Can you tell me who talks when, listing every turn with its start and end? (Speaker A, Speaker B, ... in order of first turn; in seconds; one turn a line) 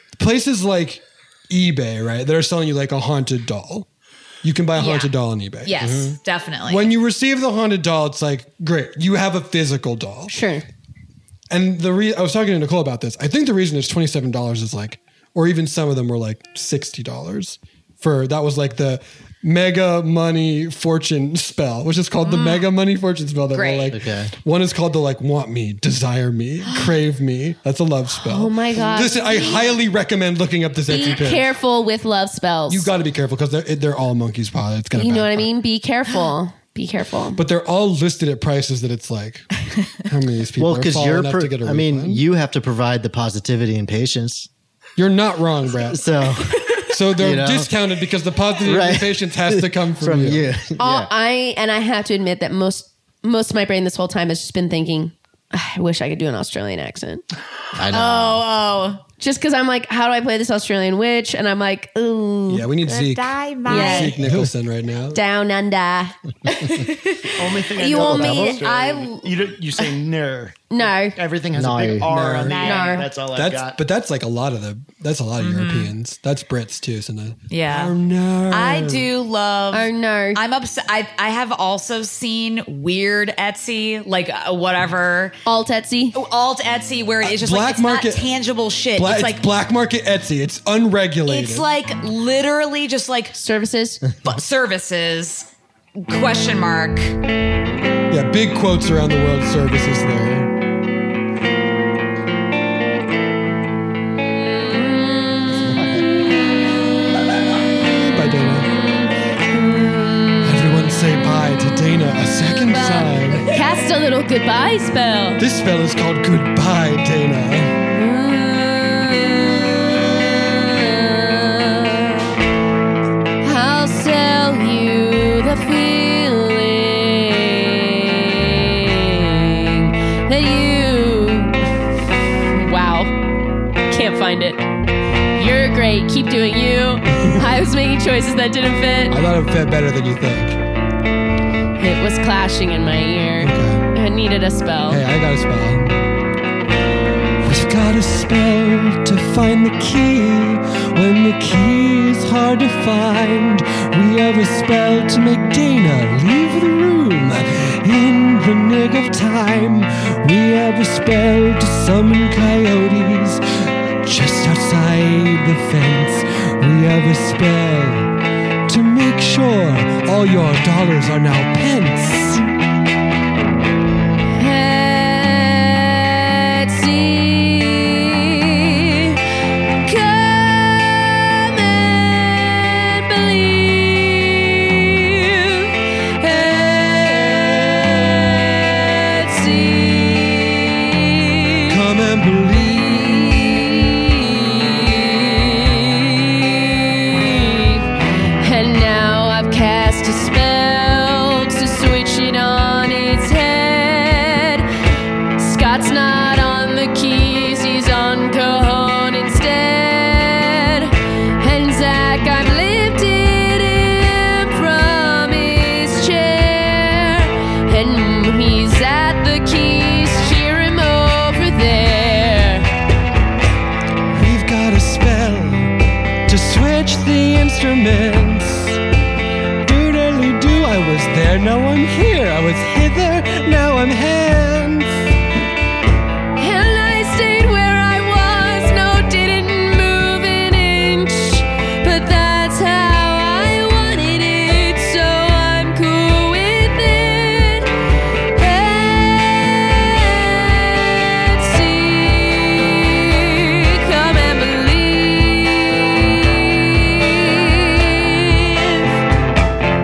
Speaker A: 0.2-3.9
Speaker A: 4.4-6.2
Speaker B: 4.8-5.1
Speaker B: 5.6-6.9
Speaker A: 6.7-10.3
Speaker C: 10.3-10.6
Speaker A: 11.5-31.5
Speaker B: 22.2-22.7
Speaker B: 23.5-23.9
Speaker D: 23.9-24.3
Speaker C: 28.2-29.7
Speaker C: 30.9-32.9
Speaker A: 32.7-35.5
Speaker C: 34.9-37.4
Speaker A: 37.4-42.2
Speaker D: 40.6-44.5
Speaker A: 45.0-46.1
Speaker D: 45.9-46.5
Speaker A: 46.8-50.5
Speaker D: 47.2-47.7
Speaker D: 48.6-51.1
Speaker C: 50.8-57.2
Speaker D: 57.8-58.4
Speaker B: 57.9-59.0
Speaker C: 59.2-62.7
Speaker A: 62.5-65.2
Speaker B: 62.8-64.2
Speaker C: 63.6-64.2
Speaker C: 65.1-66.8
Speaker B: 66.7-67.2
Speaker E: 67.4-73.8
Speaker C: 67.8-68.6
Speaker B: 67.9-69.2
Speaker D: 68.0-68.6
Speaker C: 70.7-71.2
Speaker D: 71.5-72.5
Speaker A: 72.1-72.6
Speaker B: 72.5-73.0
Speaker C: 72.6-73.0
Speaker A: 73.3-79.1
Speaker B: 75.4-75.9
Speaker B: 77.5-77.9
Speaker B: 78.5-85.4
Speaker C: 79.7-80.4
Speaker C: 85.5-86.2
Speaker B: 86.1-89.5
Speaker A: 87.2-88.3
Speaker A: 88.9-91.7
Speaker B: 91.2-93.3
Speaker C: 93.3-94.0
Speaker B: 94.2-97.2
Speaker A: 98.1-100.5
Speaker C: 104.3-106.8
Speaker D: 105.6-106.0
Speaker A: 107.8-108.7
Speaker C: 108.7-110.7
Speaker A: 110.4-113.5
Speaker C: 112.7-115.4
Speaker A: 115.4-117.8
Speaker C: 117.9-122.3
Speaker C: 123.4-131.7
Speaker C: 132.5-133.2
Speaker C: 133.9-134.6
Speaker C: 135.3-139.2
Speaker A: 139.1-140.6
Speaker C: 141.8-145.0
Speaker A: 143.4-143.9
Speaker A: 144.9-145.9
Speaker A: 147.4-163.4
Speaker A: 164.0-168.1
Speaker A: 168.7-172.4
Speaker C: 174.4-179.2
Speaker C: 179.8-191.8
Speaker A: 191.7-193.5
Speaker C: 192.9-197.8
Speaker C: 198.4-204.7
Speaker C: 205.4-222.7
Speaker A: 224.1-225.7
Speaker A: 226.3-228.8
Speaker A: 229.6-235.0
Speaker C: 236.4-247.7
Speaker C: 248.3-258.9